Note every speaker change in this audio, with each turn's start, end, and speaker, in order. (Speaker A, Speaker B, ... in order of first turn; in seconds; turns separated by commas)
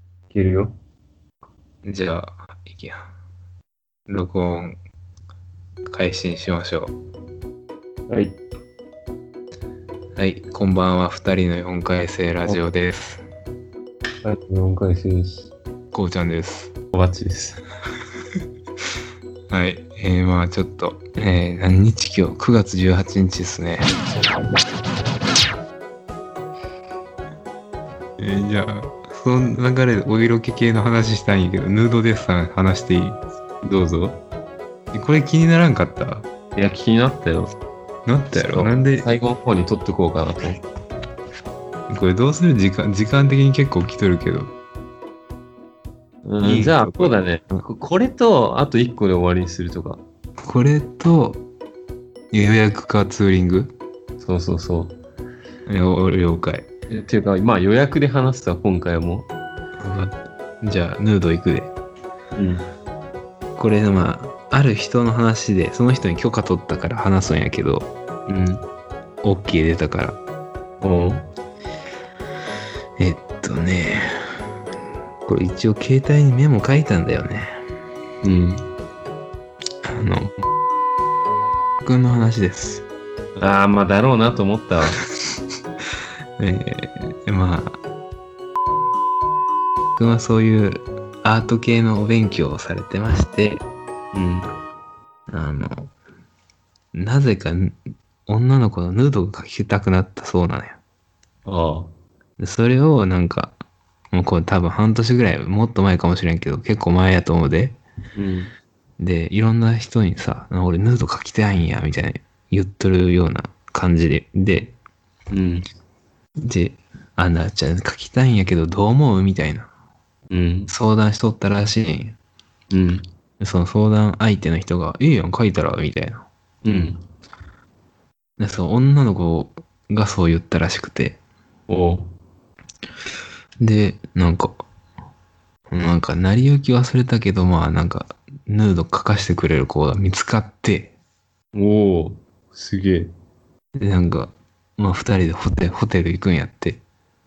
Speaker A: 0.3-0.7, Speaker B: 1.8-3.1, Speaker B: 4.1-4.8, Speaker B: 5.8-6.9, Speaker A: 8.1-8.4, Speaker B: 10.2-13.2, Speaker A: 14.2-15.5, Speaker B: 15.9-16.7, Speaker A: 16.9-17.6, Speaker B: 19.5-23.9, Speaker B: 28.2-33.2, Speaker A: 33.6-34.2, Speaker B: 34.9-36.3, Speaker A: 36.5-37.5, Speaker B: 38.0-39.1, Speaker A: 38.3-40.6, Speaker B: 41.9-44.5, Speaker A: 46.2-50.0, Speaker B: 46.4-47.6, Speaker B: 50.4-51.4, Speaker B: 52.3-53.7, Speaker A: 54.2-55.0, Speaker B: 55.7-56.6, Speaker A: 56.9-59.3, Speaker B: 59.8-61.7, Speaker A: 62.3-62.6, Speaker B: 63.6-67.9, Speaker A: 68.3-68.6, Speaker B: 69.2-70.2, Speaker A: 70.8-71.2, Speaker B: 73.0-74.1, Speaker B: 75.2-77.6, Speaker A: 78.2-78.6, Speaker B: 79.8-80.3, Speaker B: 81.8-82.9, Speaker A: 83.4-85.0, Speaker B: 86.4-87.8, Speaker B: 90.0-93.6, Speaker A: 94.1-94.5, Speaker B: 95.3-95.9, Speaker B: 96.9-100.8, Speaker A: 101.5-101.9, Speaker B: 102.4-103.5, Speaker B: 104.1-107.8, Speaker A: 108.2-108.5, Speaker B: 109.0-114.8, Speaker A: 115.3-115.7, Speaker B: 116.4-119.7, Speaker A: 120.3-120.7, Speaker B: 120.7-122.2, Speaker A: 122.7-123.0, Speaker B: 123.4-126.2, Speaker A: 126.6-127.0, Speaker B: 128.4-131.2, Speaker A: 131.7-132.1, Speaker B: 133.6-134.6, Speaker B: 135.7-140.9, Speaker A: 141.5-143.1, Speaker B: 143.8-146.8